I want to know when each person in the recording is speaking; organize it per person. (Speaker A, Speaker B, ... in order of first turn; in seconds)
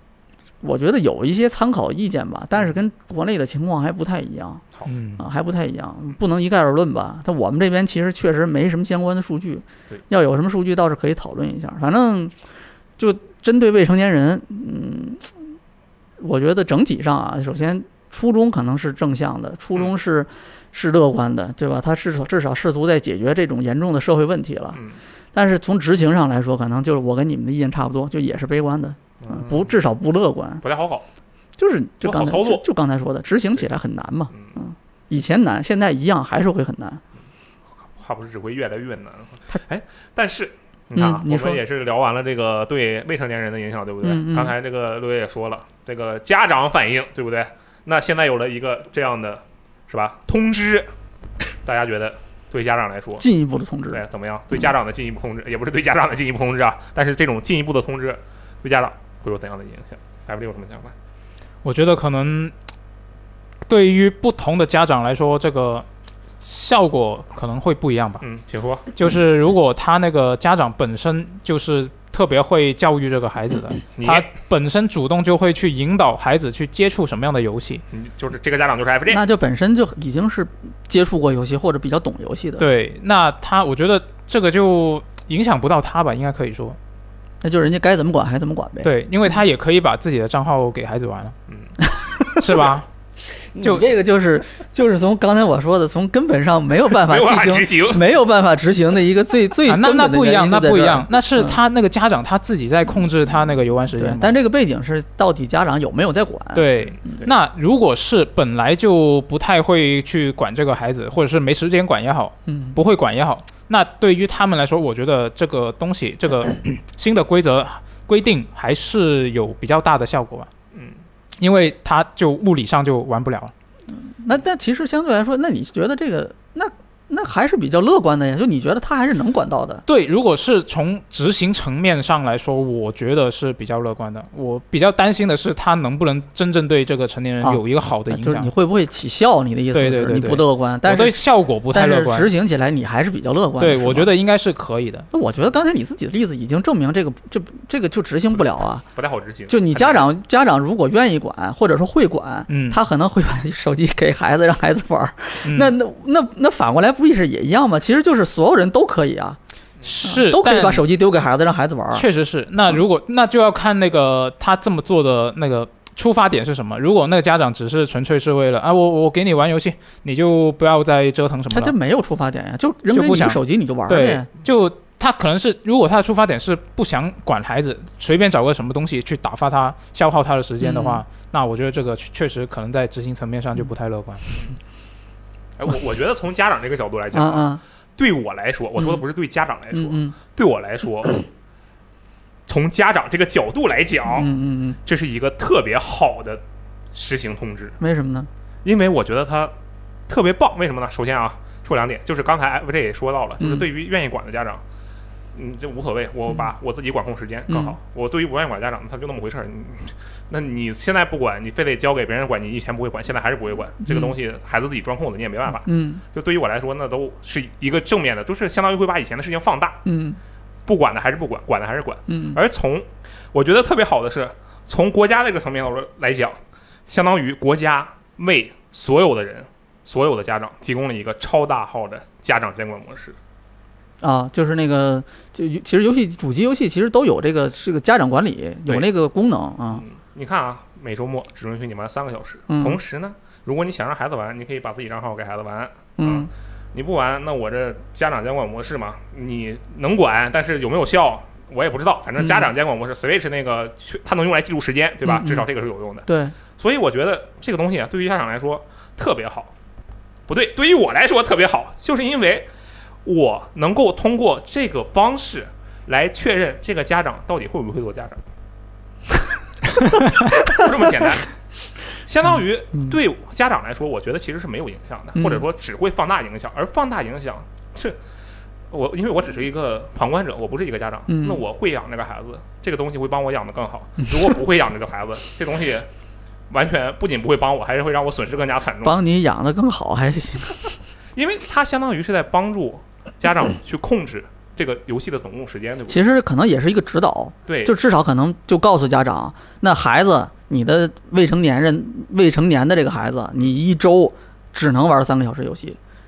Speaker A: 0.6-4.6, 5.2-12.3, 13.0-15.4, 16.2-24.8, 25.3-30.6, 31.6-37.0, 40.9-41.6, 44.0-44.5, 53.2-54.0, 79.1-82.6, 87.4-88.9, 91.8-92.7, 93.5-101.6, 104.0-107.1, 112.5-112.8, 123.9-129.8, 137.4-144.1, 145.1-148.8, 149.5-159.4, 160.0-162.1, 171.5-174.3, 180.6-181.0, 187.1-187.6, 188.8-189.0, 189.7-190.1, 194.1-194.8, 197.8-198.3, 203.4-203.7, 207.5-207.8, 213.8-214.1, 215.6-216.0, 219.8-220.2, 222.1-222.4, 234.0-239.8, 242.5-242.8, 246.0-246.3, 252.2-252.5, 255.0-255.4, 256.1-256.3, 275.1-275.4, 281.1-281.4, 288.8-290.7, 295.9-305.8
Speaker B: 4.8-5.2, 61.6-62.5, 63.7-65.9, 66.4-68.2, 68.9-77.8, 82.6-86.8, 88.8-91.3, 92.3-92.8, 93.6-93.9, 99.7-104.3, 106.5-120.5, 121.4-123.5, 129.9-138.5, 139.7-142.3, 143.6-145.1, 152.5-152.8, 155.4-155.7, 159.8-160.8, 161.9-171.7, 172.9-184.2
Speaker C: 24.7-25.0, 29.2-29.8, 30.6-31.1, 32.0-32.6, 37.9-50.9, 51.6-53.2, 53.9-60.9, 68.2-68.9, 74.0-74.3, 77.9-79.2, 97.0-98.1, 148.9-150.1, 185.6-191.3, 192.5-194.3, 194.8-196.4, 196.9-197.8, 198.6-199.5, 200.1-204.6, 205.3-219.8, 220.7-233.2, 239.7-259.5, 260.3-262.5, 263.0-268.2, 270.2-271.3, 271.9-278.0, 278.7-285.9, 286.5-289.0, 291.1-296.0, 297.5-297.7